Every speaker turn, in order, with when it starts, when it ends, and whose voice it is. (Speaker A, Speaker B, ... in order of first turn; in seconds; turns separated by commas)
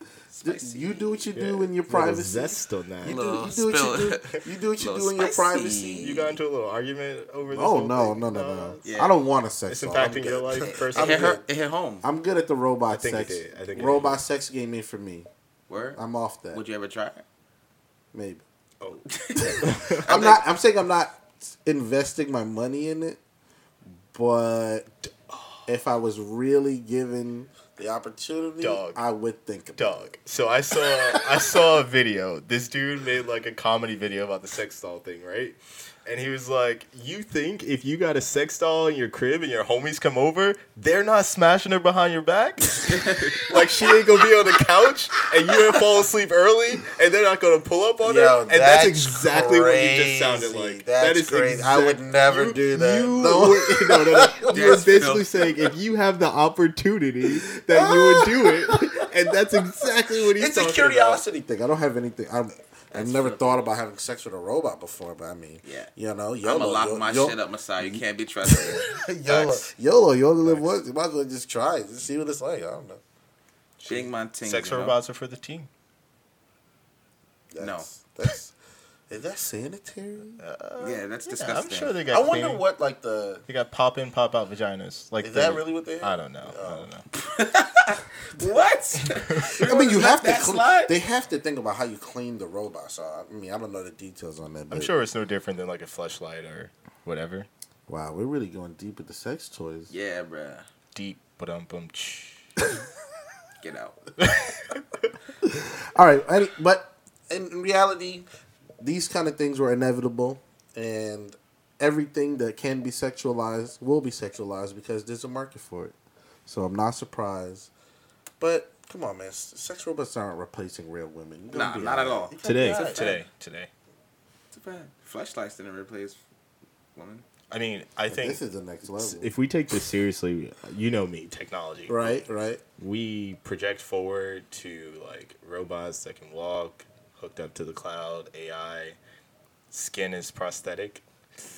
Speaker A: 0.3-1.3, Speaker B: 0.4-6.2, Speaker C: 1.3-3.2, Speaker A: 3.0-6.4, Speaker C: 6.0-8.9, Speaker B: 7.5-11.4, Speaker A: 8.8-9.2, Speaker C: 9.7-11.4, Speaker A: 10.6-12.1, Speaker B: 12.0-15.3, Speaker C: 12.9-14.2, Speaker A: 15.7-16.0, Speaker B: 16.0-16.6, Speaker A: 16.5-17.2, Speaker B: 18.1-18.4, Speaker A: 19.1-20.4, Speaker B: 19.4-23.2, Speaker C: 19.6-20.1, Speaker B: 24.1-25.1, Speaker C: 25.3-25.6, Speaker B: 25.7-30.1, Speaker C: 28.6-29.0, Speaker C: 29.8-61.2, Speaker A: 42.9-43.5, Speaker B: 45.6-45.8, Speaker B: 48.0-55.5, Speaker A: 54.5-55.4, Speaker B: 57.2-73.0, Speaker A: 62.9-63.7, Speaker A: 65.6-65.9, Speaker A: 66.4-69.7, Speaker C: 70.4-70.7, Speaker C: 73.8-75.7, Speaker A: 73.8-75.0, Speaker B: 77.5-78.5, Speaker A: 77.6-77.9, Speaker B: 79.1-80.4, Speaker C: 80.4-82.6, Speaker A: 80.8-82.0, Speaker B: 82.1-83.5, Speaker C: 83.5-87.0, Speaker B: 85.2-86.9, Speaker A: 87.2-91.0, Speaker C: 89.2-89.5, Speaker B: 89.6-94.9, Speaker C: 94.7-97.5, Speaker B: 97.9-99.9, Speaker A: 99.9-100.7, Speaker C: 100.9-102.6, Speaker A: 103.6-104.0, Speaker C: 104.2-105.1, Speaker B: 105.4-108.3, Speaker B: 108.8-117.7, Speaker B: 118.4-123.1, Speaker A: 121.5-123.2, Speaker C: 122.4-123.7, Speaker A: 124.5-126.2, Speaker A: 127.0-127.2, Speaker C: 127.5-132.2, Speaker B: 128.1-129.3, Speaker B: 131.9-132.6, Speaker C: 132.8-139.0, Speaker C: 139.7-141.0